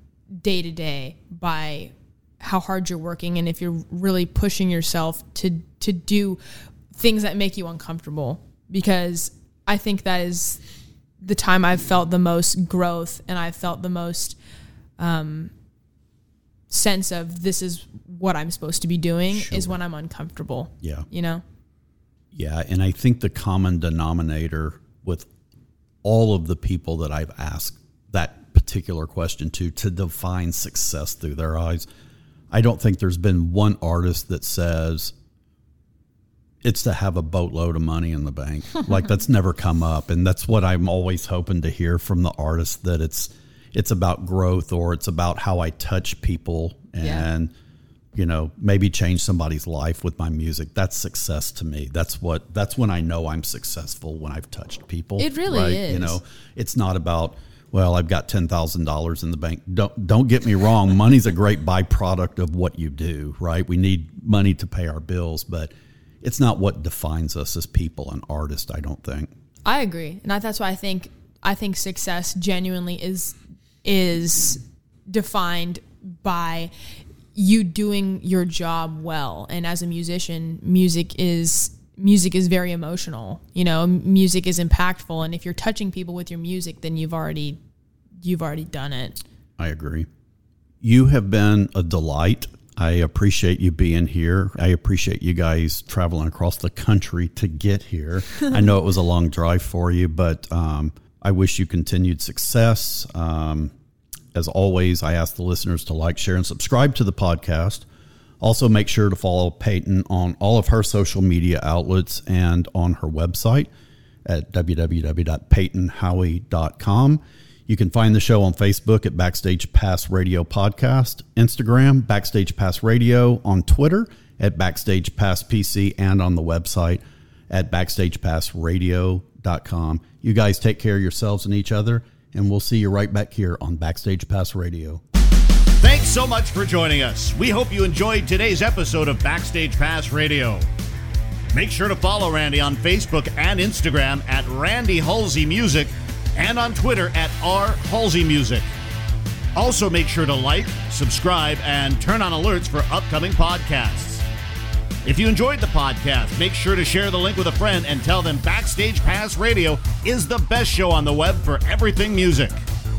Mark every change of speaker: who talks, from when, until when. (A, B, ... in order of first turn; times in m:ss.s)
0:00.4-0:06.4 A
0:06.9-0:10.6 A
0:11.2-0:14.4 A
0:15.0-0:15.5 A
0:16.7-0:21.4 A
0:19.3-0:19.8 B
0:20.8-0:21.1 B
0:22.3-0:25.3 B
0:26.0-0:31.9 B
0:32.5-0:35.1 B
0:36.6-0:47.5 B
0:47.0-0:47.3 A
0:48.1-1:09.3 B
0:55.2-0:56.2 A
1:09.6-1:16.7 A
1:17.3-1:27.6 A
1:28.2-1:29.2 A
1:29.6-1:30.1 B
1:30.8-1:43.7 B
1:44.3-1:47.8 B
1:48.4-1:53.7 B
1:54.2-2:15.0 B
2:15.8-2:20.6 C
2:21.5-2:28.6 C
2:29.6-2:34.2 C
2:35.0-2:42.6 C